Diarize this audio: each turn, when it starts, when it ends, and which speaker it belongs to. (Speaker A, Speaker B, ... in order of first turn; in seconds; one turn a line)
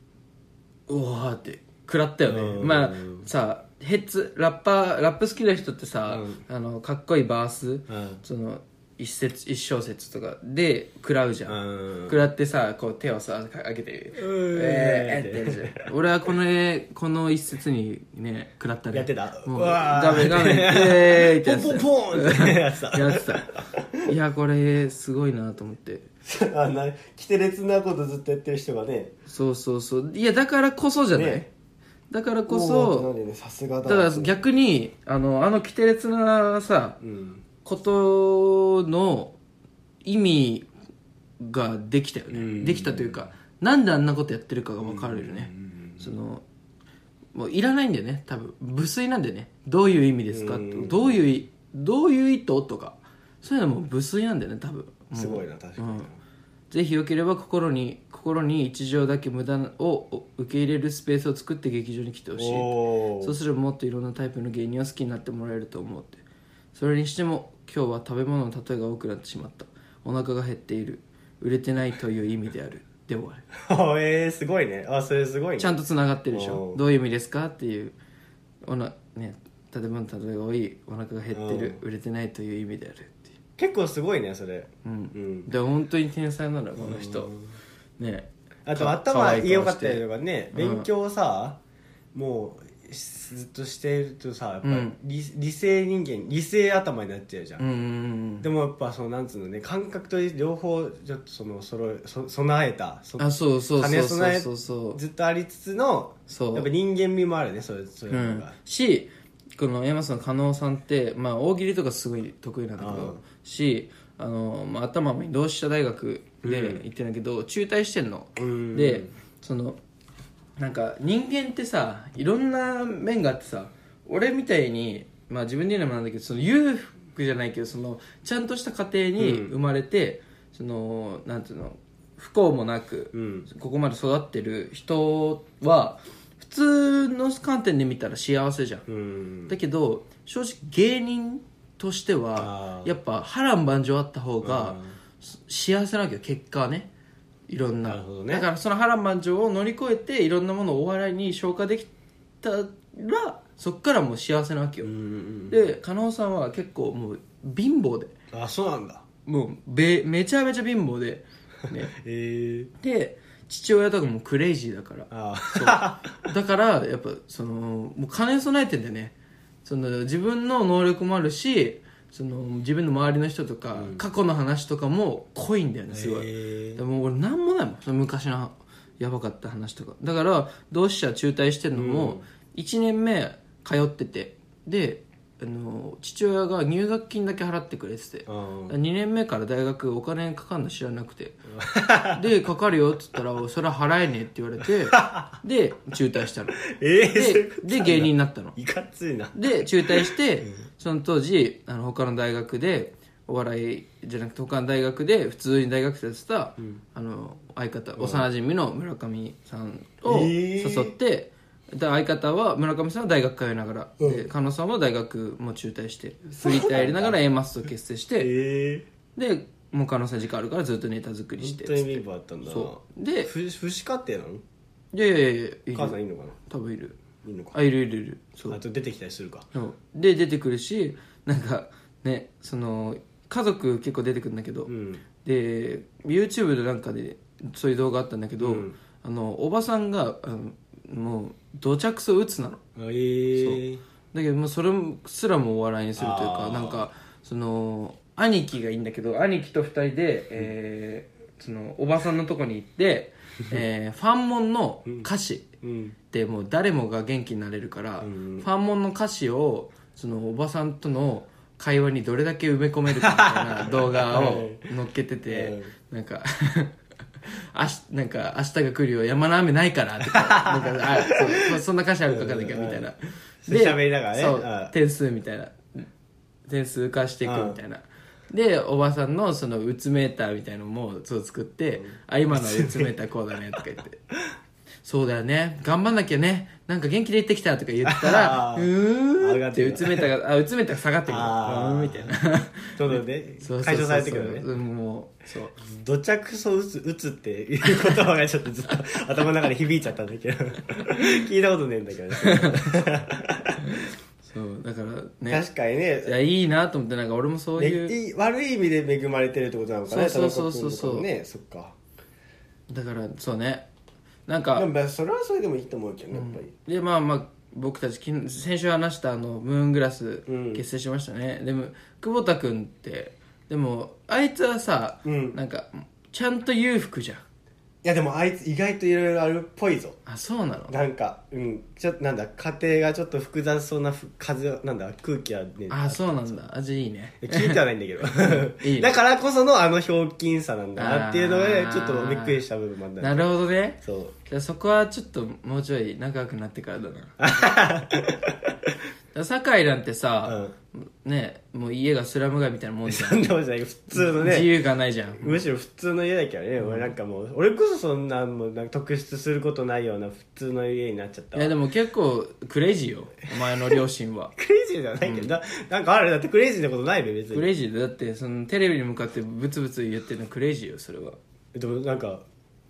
Speaker A: 0.9-26.1
Speaker B: 2.3-3.3
Speaker B: 6.1-6.4
Speaker B: 7.9-8.2
Speaker B: 11.5-12.2
Speaker B: 14.2-15.8
Speaker B: 18.9-24.1
Speaker B: 26.2-29.1
Speaker A: 29.3-31.4
Speaker B: 31.1-31.5
Speaker A: 32.1-33.1
Speaker B: 32.5-34.4
Speaker A: 33.8-37.0
Speaker B: 37.0-37.4
Speaker A: 37.6-39.4
Speaker A: 40.0-40.7
Speaker A: 41.4-46.4
Speaker B: 42.3-43.3
Speaker B: 44.8-46.1
Speaker A: 47.3-56.1
Speaker B: 50.3-51.3
Speaker B: 55.1-56.2
Speaker A: 56.7-66.2
Speaker B: 62.4-63.4
Speaker A: 66.7-73.4
Speaker B: 73.5-75.8
Speaker A: 75.6-77.9
Speaker B: 76.3-76.8
Speaker A: 78.6-83.3
Speaker B: 81.3-81.8
Speaker B: 83.6-85.5
Speaker A: 84.8-87.3
Speaker B: 86.8-87.5
Speaker A: 88.0-90.9
Speaker B: 88.6-91.6
Speaker B: 92.1-97.6
Speaker A: 94.6-95.0
Speaker A: 97.6-98.5
Speaker B: 98.4-108.5
Speaker A: 103.2-105.0
Speaker A: 106.3-106.7
Speaker A: 108.1-119.8
Speaker B: 112.8-113.2
Speaker B: 116.4-116.8
Speaker B: 118.3-119.1
Speaker A: 120.6-138.8
Speaker B: 129.2-129.5
Speaker B: 133.1-133.5
Speaker B: 138.9-139.5
Speaker A: 139.5-146.9
Speaker B: 142.3-142.9
Speaker B: 144.4-144.9
Speaker A: 147.5-151.9
Speaker B: 147.8-148.4
Speaker A: 152.4-154.9
Speaker B: 154.8-155.6
Speaker A: 155.5-158.1
Speaker B: 158.3-159.0
Speaker A: 159.2-161.9
Speaker B: 161.9-162.7
Speaker A: 162.8-169.1
Speaker B: 165.1-166.1
Speaker A: 169.6-191.5
Speaker B: 173.7-174.0
Speaker B: 175.9-176.8
Speaker B: 181.7-182.2
Speaker B: 188.3-188.7
Speaker B: 191.6-192.3
Speaker A: 192.1-198.6
Speaker B: 194.9-195.3
Speaker B: 196.6-200.2
Speaker A: 199.3-218.3
Speaker B: 208.0-208.3
Speaker B: 210.0-210.9
Speaker B: 214.0-214.2
Speaker B: 216.4-217.2
Speaker B: 218.2-218.8
Speaker A: 219.1-223.3
Speaker B: 221.4-224.4
Speaker A: 224.9-227.0
Speaker B: 225.7-226.3
Speaker B: 227.2-227.6
Speaker A: 227.5-228.6
Speaker B: 228.5-229.5
Speaker A: 229.5-234.7
Speaker B: 234.7-235.0
Speaker A: 235.2-242.6
Speaker B: 238.4-238.8
Speaker B: 242.8-243.8
Speaker A: 243.3-255.6
Speaker B: 245.9-246.9
Speaker B: 255.6-255.9
Speaker A: 256.1-266.8
Speaker B: 258.0-258.5
Speaker B: 263.0-264.6
Speaker B: 265.3-265.7
Speaker A: 267.5-275.9
Speaker B: 270.1-272.9
Speaker B: 273.4-274.7
Speaker A: 276.5-284.0
Speaker B: 277.2-277.6
Speaker B: 281.8-282.9
Speaker A: 284.8-295.6
Speaker B: 287.8-290.1
Speaker B: 291.1-292.1
Speaker B: 292.7-294.5
Speaker B: 295.6-303.8
Speaker A: 302.2-302.9
Speaker A: 303.6-305.4
Speaker B: 305.3-306.1
Speaker A: 306.0-307.9
Speaker B: 307.6-311.8
Speaker A: 309.9-311.1
Speaker A: 312.7-313.7
Speaker A: 314.3-314.7
Speaker B: 314.6-316.5
Speaker A: 316.1-327.2
Speaker B: 320.3-320.6
Speaker B: 325.0-325.4
Speaker B: 327.8-330.0
Speaker A: 330.1-330.8
Speaker B: 330.7-336.4
Speaker A: 335.7-338.9
Speaker B: 337.2-343.3
Speaker A: 340.8-342.4
Speaker A: 343.0-347.2
Speaker B: 343.8-344.1
Speaker B: 347.2-348.7
Speaker A: 349.1-353.3
Speaker B: 350.2-350.5
Speaker B: 352.9-354.5
Speaker A: 353.9-355.4
Speaker B: 355.2-361.5
Speaker A: 356.6-356.9
Speaker A: 361.3-364.3
Speaker B: 364.4-367.4
Speaker A: 367.3-371.2
Speaker B: 371.5-372.2